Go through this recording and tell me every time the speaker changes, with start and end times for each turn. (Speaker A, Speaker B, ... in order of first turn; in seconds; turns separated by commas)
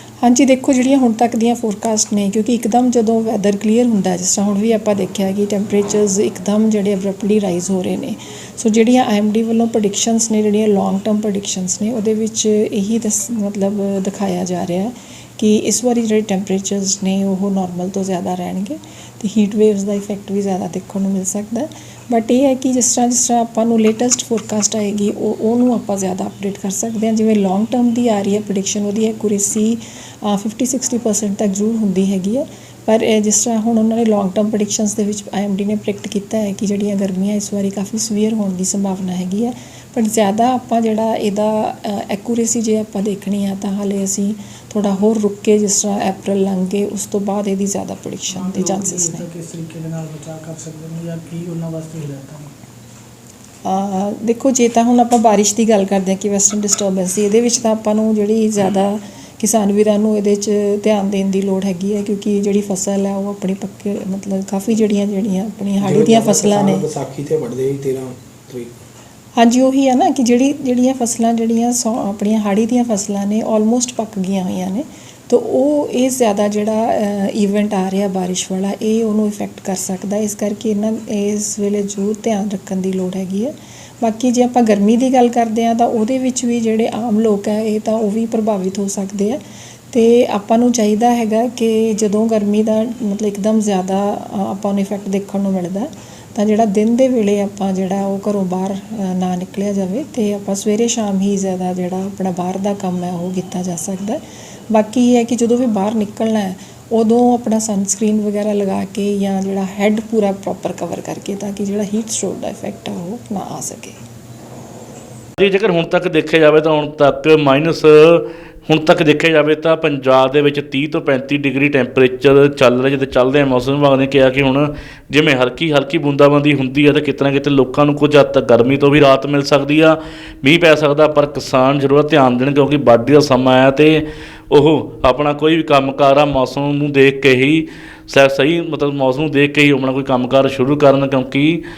Speaker A: 0.2-49.2, Speaker B: 48.3-52.5, Speaker A: 53.6-66.8, Speaker C: 65.8-68.7, Speaker A: 69.4-89.4, Speaker A: 89.9-114.0, Speaker D: 115.4-141.6